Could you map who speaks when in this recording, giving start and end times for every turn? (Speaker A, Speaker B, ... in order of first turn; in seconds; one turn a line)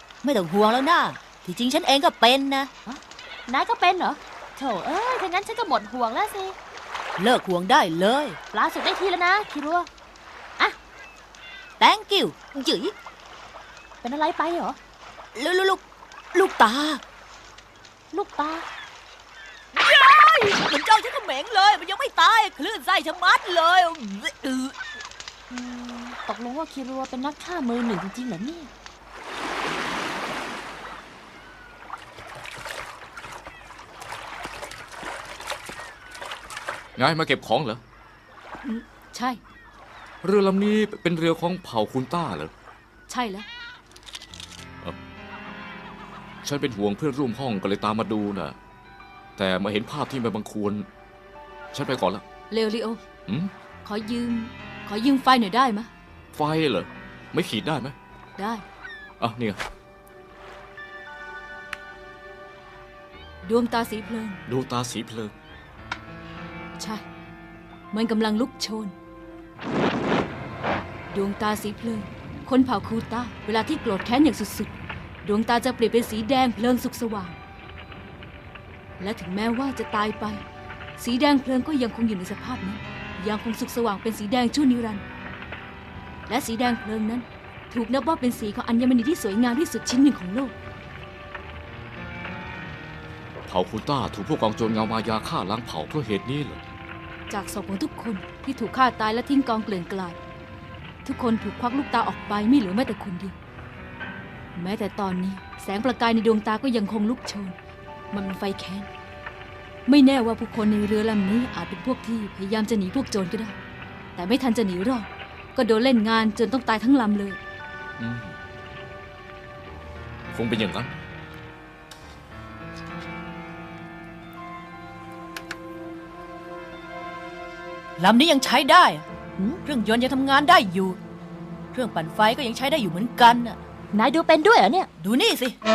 Speaker A: 0.2-2.7
Speaker B: 2.9-6.5
Speaker A: 7.2-8.4
Speaker B: 8.5-9.9
Speaker A: 11.8-12.9
Speaker B: 14.0-14.8
Speaker A: 15.3-17.0
Speaker B: 18.1-18.6
Speaker A: 19.7-24.8
Speaker B: 25.5-28.7
Speaker C: 37.0-37.8
Speaker D: 38.6-39.4
Speaker C: 40.2-42.5
Speaker D: 43.1-43.5
Speaker C: 46.4-48.5
Speaker C: 49.4-50.9
Speaker C: 51.7-52.2
Speaker D: 52.5-53.0
Speaker D: 53.8-55.9
Speaker C: 56.3-57.9
Speaker D: 58.4-58.6
Speaker C: 59.2-59.6
Speaker D: 63.4-64.4
Speaker C: 64.5-65.3
Speaker D: 67.9-68.9
Speaker D: 71.1-74.7
Speaker D: 75.2-77.4
Speaker D: 79.0-80.4
Speaker D: 81.0-85.0
Speaker D: 86.3-90.5
Speaker C: 93.5-96.6
Speaker D: 97.3-100.2
Speaker D: 101.0-103.3
Speaker D: 104.5-107.6
Speaker D: 108.1-108.9
Speaker D: 109.9-113.5
Speaker D: 114.2-117.4
Speaker C: 118.0-118.3
Speaker C: 120.3-120.9
Speaker A: 128.0-129.1
Speaker A: 129.6-131.0
Speaker A: 131.7-133.6
Speaker B: 133.9-134.9
Speaker A: 135.0-135.6